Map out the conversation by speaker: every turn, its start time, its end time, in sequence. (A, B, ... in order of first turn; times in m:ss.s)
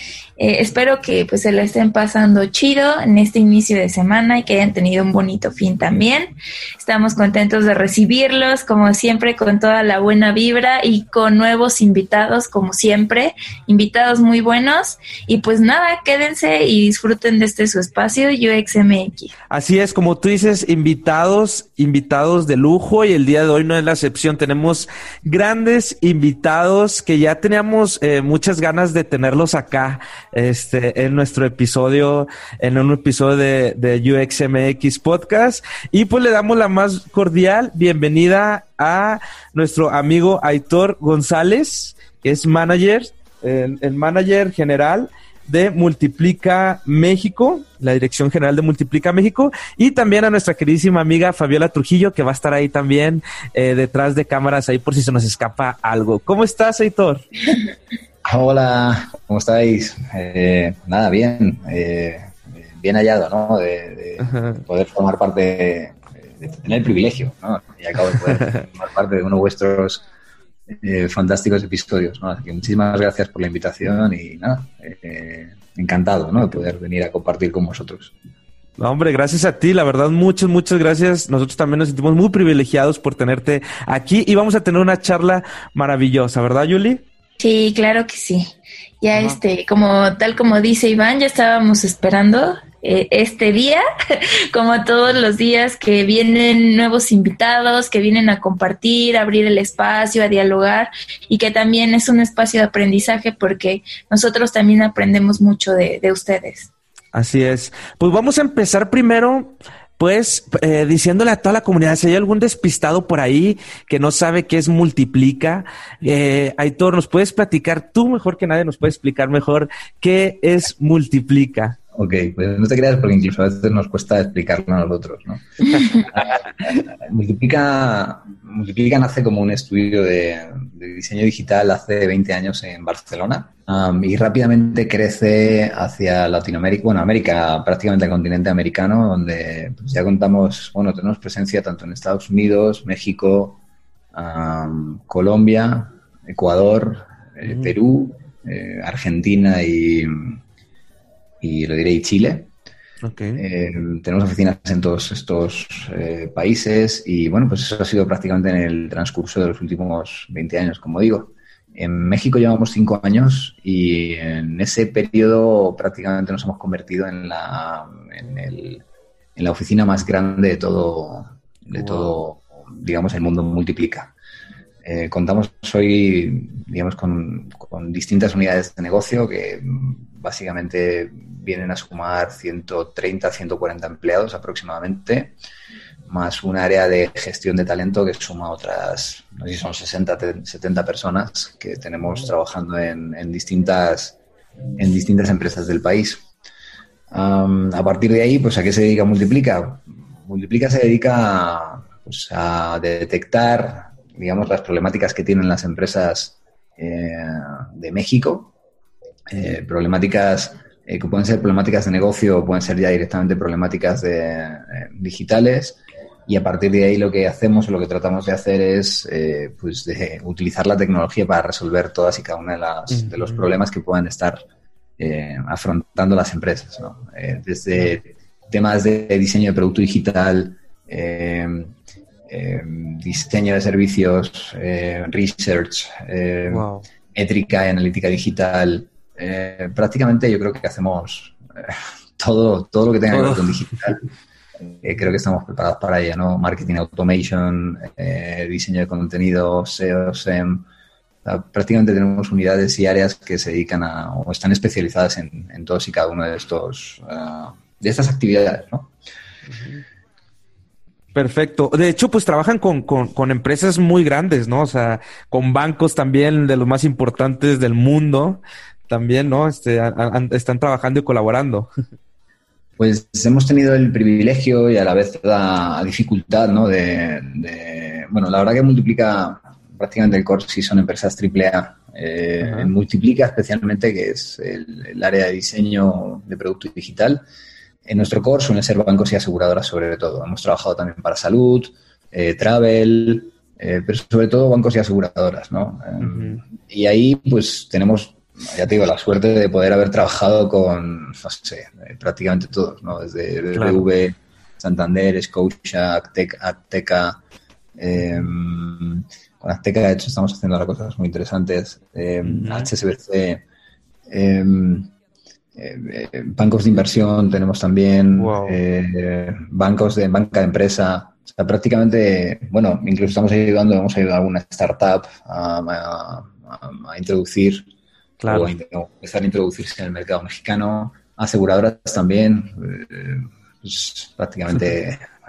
0:00.4-0:19.3 A
0:19.5-0:57.2 B
0:58.2-1:10.0 C
1:04.2-1:04.6 B
1:10.7-1:18.1 C
1:18.8-1:27.0 B
1:27.4-1:46.7 A
1:47.1-2:01.8 B
2:01.9-2:23.6 C
2:24.1-2:30.4 C
2:27.4-2:27.7 B
2:31.4-2:32.5 C
2:33.0-2:33.4 B
2:33.4-2:48.8 C
2:49.4-2:54.1 C
2:51.8-2:52.1 B
2:54.8-3:05.3 C
3:06.1-3:14.2 C
3:14.8-3:16.2 C
3:17.1-3:28.5 C
3:29.3-3:44.4 C
3:43.0-3:43.4 B
3:45.0-3:51.7 C
3:52.3-4:04.1 C
3:56.5-3:56.8 B
4:03.1-4:03.6 B
4:04.6-4:10.6 C
4:11.2-4:18.9 C
4:19.5-4:19.8 B
4:21.1-4:31.7 B
4:32.8-4:47.2 C
4:42.4-4:42.7 B
4:47.8-5:07.2 C
4:56.0-4:56.4 B
5:03.5-5:03.8 B
5:07.8-5:13.4 C
5:12.2-5:12.7 B
5:14.1-5:14.9 C
5:15.6-5:27.7 C
5:18.1-5:18.6 B
5:28.2-5:28.5 B
5:28.3-5:35.1 C